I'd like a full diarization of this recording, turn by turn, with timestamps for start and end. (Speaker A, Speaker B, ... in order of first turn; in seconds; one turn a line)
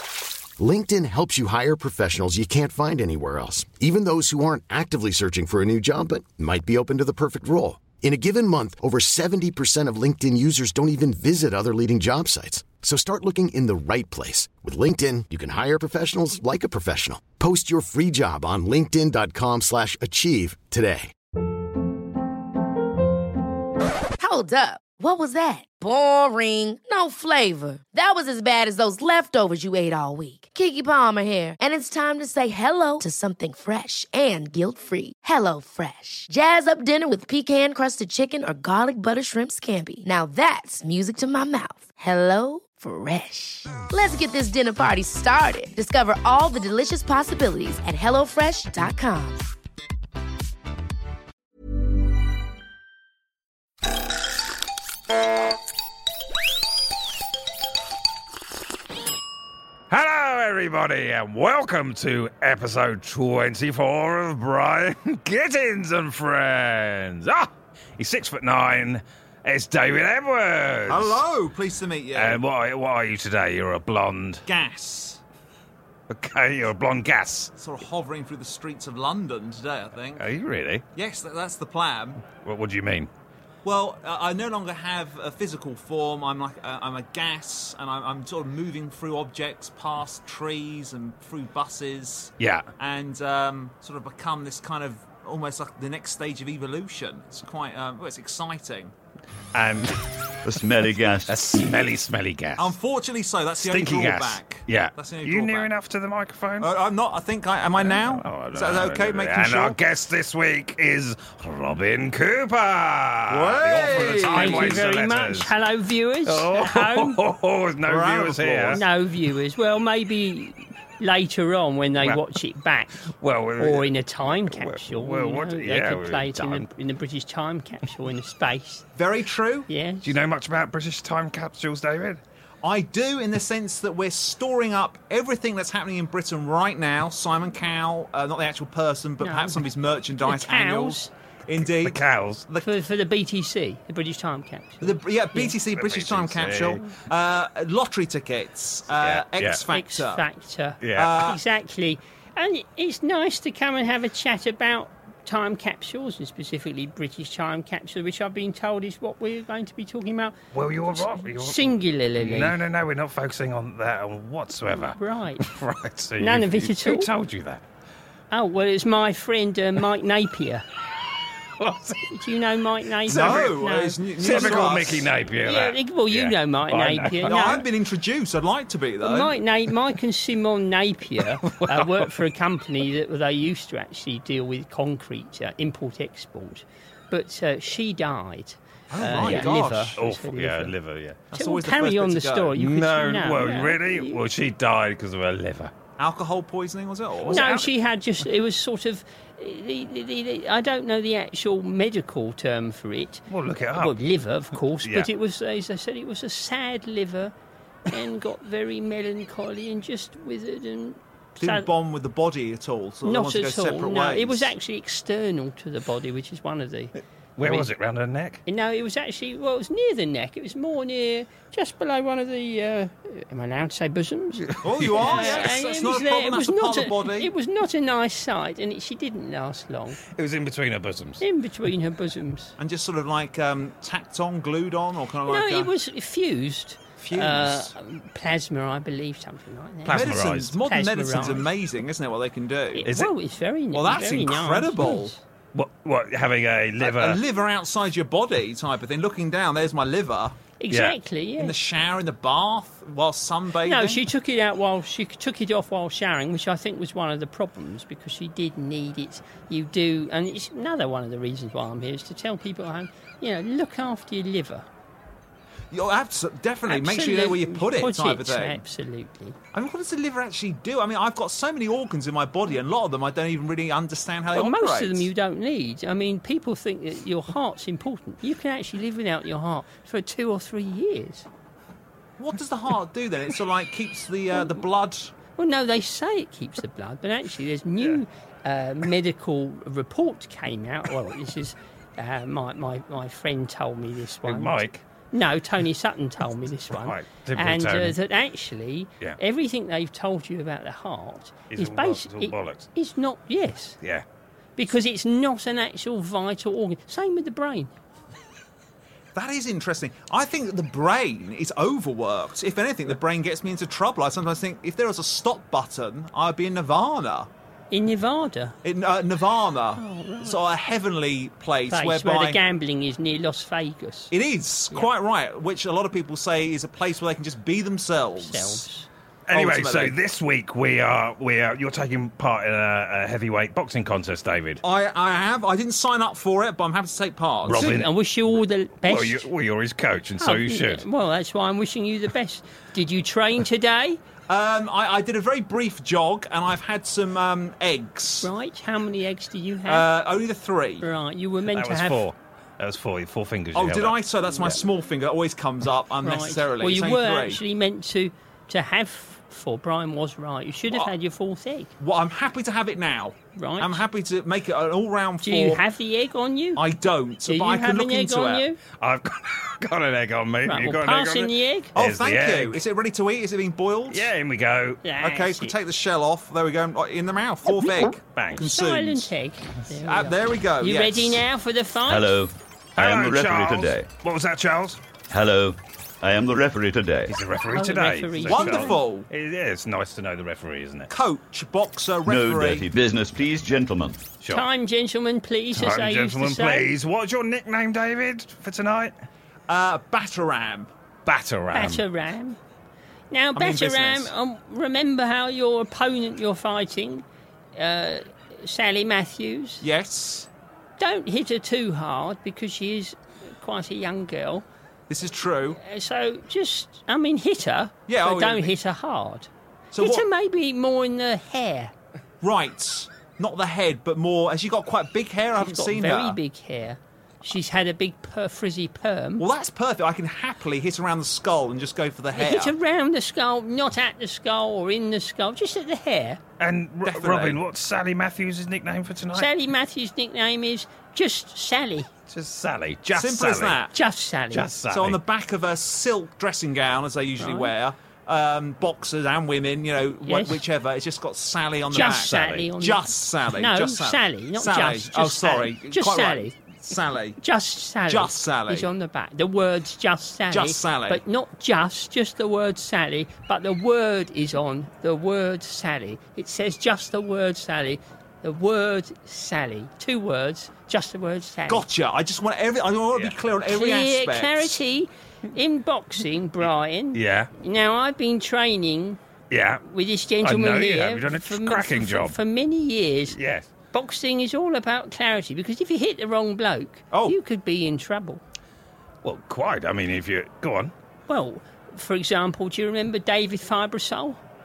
Speaker A: 0.6-21.1
Speaker B: 24.2-49.4
Speaker C: 59.9-71.2
Speaker D: 70.9-72.4
Speaker C: 72.2-74.5
Speaker D: 74.5-75.2
Speaker C: 76.1-77.5
Speaker D: 77.6-80.2
Speaker C: 80.2-80.8
Speaker D: 81.0-82.2
Speaker C: 82.3-83.1
Speaker D: 83.6-98.9
Speaker C: 92.4-92.7
Speaker C: 99.5-100.3
Speaker E: 100.4-101.4
Speaker C: 101.3-102.8
Speaker D: 102.6-105.7
Speaker C: 103.6-106.7
Speaker D: 106.6-109.8
Speaker C: 107.8-115.5
Speaker D: 113.3-114.8
Speaker F: 114.2-117.2
Speaker C: 116.3-118.8
Speaker D: 117.9-118.9
Speaker F: 118.7-128.8
Speaker C: 123.1-126.7
Speaker D: 129.0-129.7
Speaker F: 129.7-130.1
Speaker C: 130.0-132.2
Speaker D: 132.6-142.7
Speaker F: 139.2-141.1
Speaker C: 141.8-142.4
Speaker F: 142.6-145.6
Speaker D: 144.8-150.2
Speaker C: 145.7-146.8
Speaker C: 148.9-149.6
Speaker F: 149.7-160.4
Speaker C: 150.8-151.2
Speaker D: 150.9-151.4
Speaker C: 160.5-167.6
Speaker F: 160.9-162.6
Speaker F: 164.7-165.4
Speaker F: 166.2-167.1
Speaker F: 168.3-170.7
Speaker C: 171.6-172.1
Speaker F: 172.1-174.8
Speaker D: 173.1-175.1
Speaker C: 173.1-173.5
Speaker C: 174.2-177.7
Speaker F: 175.4-177.6
Speaker D: 177.2-179.3
Speaker F: 179.0-190.8
Speaker C: 181.4-182.2
Speaker D: 188.9-190.0
Speaker C: 189.1-191.2
Speaker D: 191.3-192.6
Speaker F: 191.3-194.2
Speaker C: 192.6-195.7
Speaker D: 196.0-197.4
Speaker C: 197.2-197.7
Speaker F: 197.3-207.3
Speaker C: 203.3-203.9
Speaker C: 204.8-205.1
Speaker F: 207.9-211.7
Speaker D: 211.4-214.5
Speaker F: 213.0-217.7
Speaker C: 217.4-218.4
Speaker F: 218.5-230.0
Speaker C: 224.5-225.5
Speaker D: 224.6-227.3
Speaker C: 230.1-231.2
Speaker F: 231.2-232.6
Speaker D: 232.6-235.7
Speaker F: 235.3-241.5
Speaker D: 237.0-237.7
Speaker C: 239.9-240.6
Speaker D: 239.9-243.0
Speaker F: 242.7-245.2
Speaker C: 242.8-243.1
Speaker D: 243.7-245.2
Speaker C: 245.5-247.2
Speaker D: 246.8-250.4
Speaker F: 250.6-251.6
Speaker C: 250.7-251.0
Speaker D: 251.4-254.0
Speaker F: 253.6-264.7
Speaker D: 265.7-268.6
Speaker F: 266.7-269.4
Speaker D: 269.5-275.1
Speaker F: 274.3-281.3
Speaker D: 282.2-285.1
Speaker F: 285.4-303.8
Speaker C: 294.2-294.8
Speaker C: 296.7-297.9
Speaker C: 301.5-302.7
Speaker F: 304.6-307.7
Speaker D: 309.1-317.3
Speaker F: 317.7-318.6
Speaker D: 318.6-322.4
Speaker F: 319.8-320.4
Speaker F: 321.7-324.1
Speaker D: 324.1-328.7
Speaker F: 328.2-328.9
Speaker C: 329.3-334.6
Speaker D: 329.3-330.0
Speaker D: 334.6-337.7
Speaker C: 337.5-337.9
Speaker F: 337.5-339.3
Speaker C: 338.9-340.8
Speaker F: 340.2-344.0
Speaker D: 344.3-348.3
Speaker F: 348.2-349.9
Speaker D: 349.7-350.9
Speaker F: 350.8-352.1
Speaker C: 351.5-354.5
Speaker D: 353.5-357.4
Speaker F: 356.0-361.7
Speaker D: 361.8-365.6
Speaker F: 363.4-363.8
Speaker F: 365.2-366.6
Speaker D: 366.6-368.4
Speaker F: 367.2-368.6
Speaker C: 368.7-372.6
Speaker F: 370.4-371.7
Speaker D: 371.8-374.1
Speaker C: 373.9-374.8
Speaker F: 374.8-375.6
Speaker D: 375.0-379.1
Speaker C: 378.1-378.4
Speaker F: 378.4-382.2
Speaker D: 379.7-381.2
Speaker E: 381.9-383.9
Speaker C: 382.8-384.8
Speaker E: 385.1-387.1
Speaker C: 387.1-390.9
Speaker F: 387.5-388.8
Speaker D: 388.3-389.1
Speaker D: 390.9-392.7
Speaker E: 392.1-394.1
Speaker F: 394.3-396.7
Speaker C: 395.6-398.9
Speaker D: 399.5-400.7
Speaker C: 401.1-401.8
Speaker F: 401.5-402.4
Speaker F: 403.1-409.6
Speaker D: 403.4-404.1
Speaker D: 409.6-410.3
Speaker F: 410.8-414.5
Speaker D: 414.9-415.6
Speaker F: 415.6-421.7
Speaker D: 417.9-418.6
Speaker D: 419.7-420.1
Speaker D: 422.2-426.2
Speaker F: 425.4-429.3
Speaker D: 429.2-432.6
Speaker F: 432.1-436.2
Speaker C: 436.4-439.3
Speaker D: 436.8-437.4
Speaker F: 439.1-441.9
Speaker C: 442.1-443.6
Speaker D: 442.9-443.8
Speaker F: 443.7-444.5
Speaker C: 444.3-445.0
Speaker D: 444.7-457.2
Speaker F: 447.2-447.5
Speaker F: 450.1-450.4
Speaker C: 451.7-452.5
Speaker F: 451.7-456.4
Speaker F: 457.2-471.7
Speaker D: 457.9-458.7
Speaker D: 460.3-461.0
Speaker D: 471.5-474.6
Speaker F: 473.5-479.0
Speaker C: 476.9-477.3
Speaker C: 479.3-479.6
Speaker F: 479.6-483.2
Speaker C: 480.2-482.2
Speaker C: 483.1-483.5
Speaker F: 483.7-488.2
Speaker C: 489.0-490.7
Speaker F: 491.1-494.2